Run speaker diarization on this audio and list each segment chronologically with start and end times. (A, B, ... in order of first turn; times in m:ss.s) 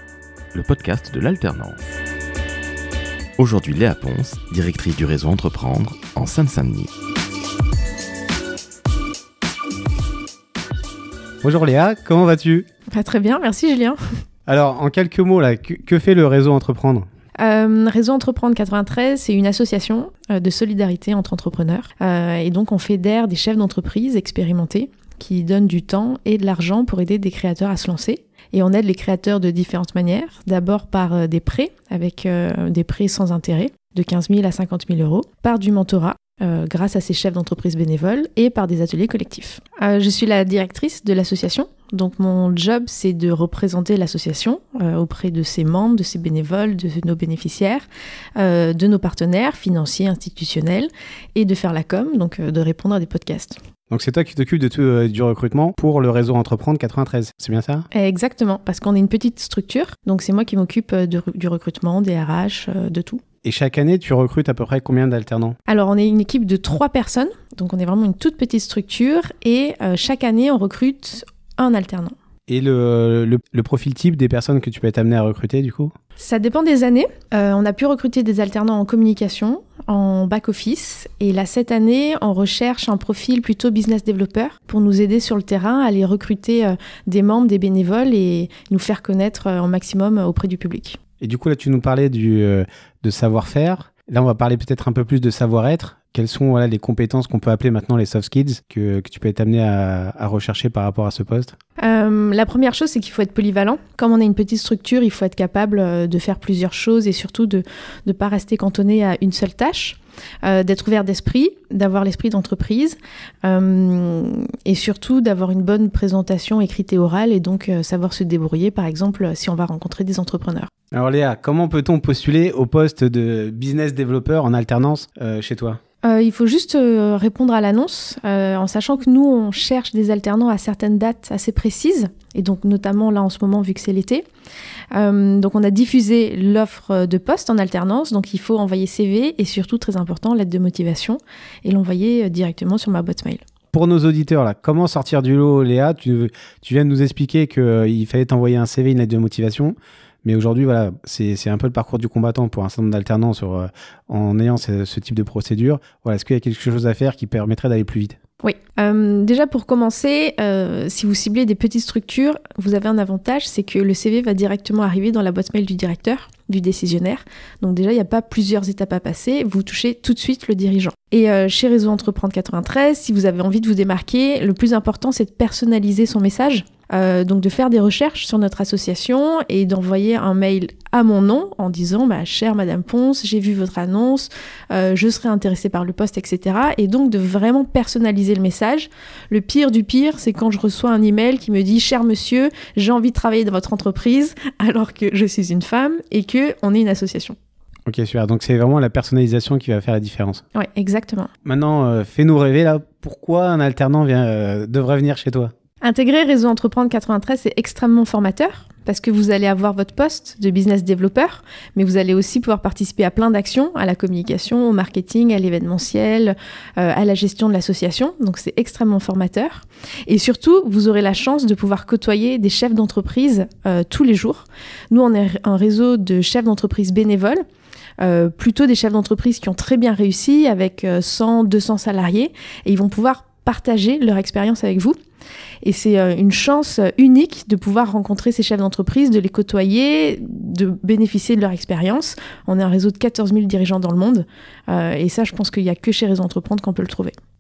0:00.5-0:01.8 A
0:03.4-0:06.9 A
0:11.4-0:12.7 B
0:12.9-0:14.0 C
0:14.5-0:17.1 B
0:17.4-0:47.9 C
0:48.4-0:53.6 C
0:53.9-0:57.9 B
0:57.9-1:03.2 C
1:03.4-1:05.6 B
1:05.7-1:12.2 C
1:12.5-1:15.9 B
1:16.2-1:31.0 C
1:31.2-1:41.6 B
1:41.8-2:00.7 C
2:00.9-2:05.8 B
2:06.0-2:14.2 C
2:14.9-2:23.4 C
2:23.7-2:38.2 B
2:38.4-3:17.4 C
3:17.9-3:20.4 B
3:20.6-3:21.3 C
3:21.4-3:25.5 B
3:25.8-3:47.4 C
3:48.0-3:55.0 C
3:55.6-4:07.1 C